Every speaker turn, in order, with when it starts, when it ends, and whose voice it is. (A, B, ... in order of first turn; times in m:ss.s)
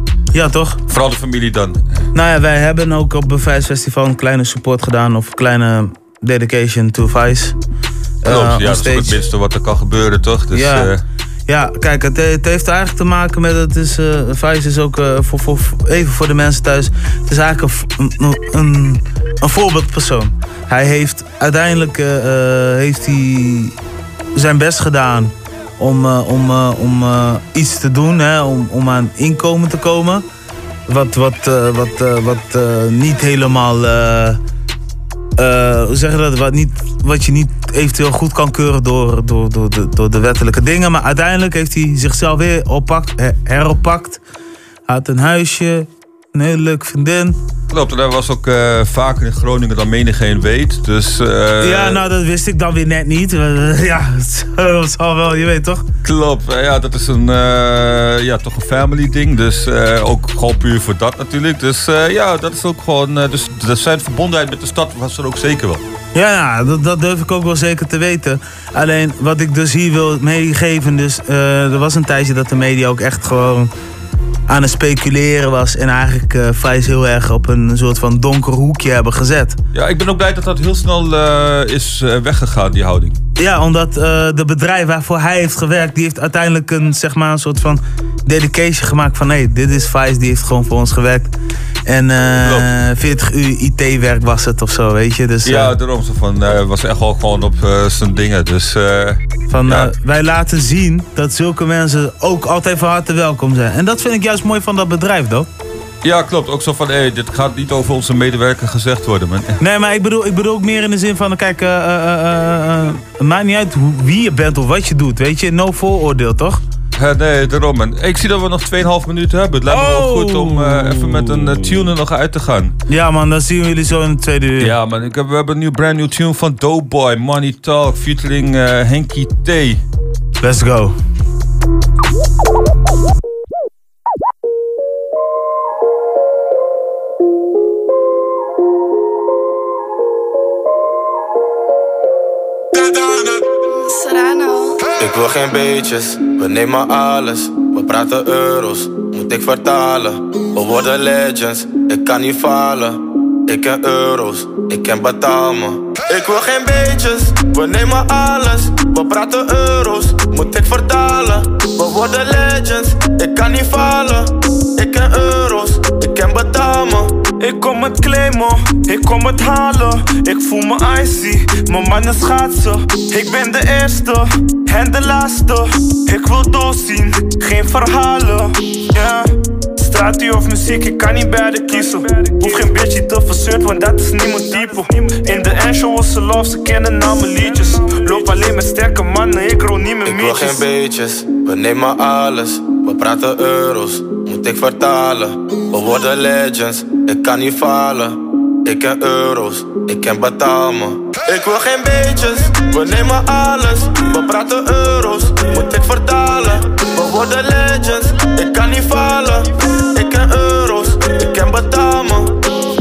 0:00.3-0:00.8 A
0:00.9-0:02.0 B
0:02.1-0:07.5 A
0:08.2-0:09.1 A
0:08.3-0:11.0 B
0:10.5-0:10.9 A
0:11.5-0:23.7 A
0:24.3-0:30.2 A
0:30.9-0:34.4 A
0:35.4-0:44.2 A
0:44.9-0:47.4 A
0:47.7-0:52.0 B
0:51.6-0:55.8 A
0:56.0-1:05.8 B
1:06.1-1:13.7 A
1:14.5-1:19.6 A
1:19.7-1:23.2 B
1:23.4-1:31.3 A
1:31.9-1:35.7 A
1:35.4-1:39.9 B
1:39.5-1:45.5 A
1:46.0-1:49.6 B
1:49.6-1:56.6 A
1:56.9-2:02.7 B
1:59.7-2:01.8 A
2:02.9-2:04.7 A
2:04.6-2:09.8 B
2:10.4-2:10.9 A
2:25.0-2:47.1 C
2:47.4-3:10.7 D
3:10.0-3:32.3 C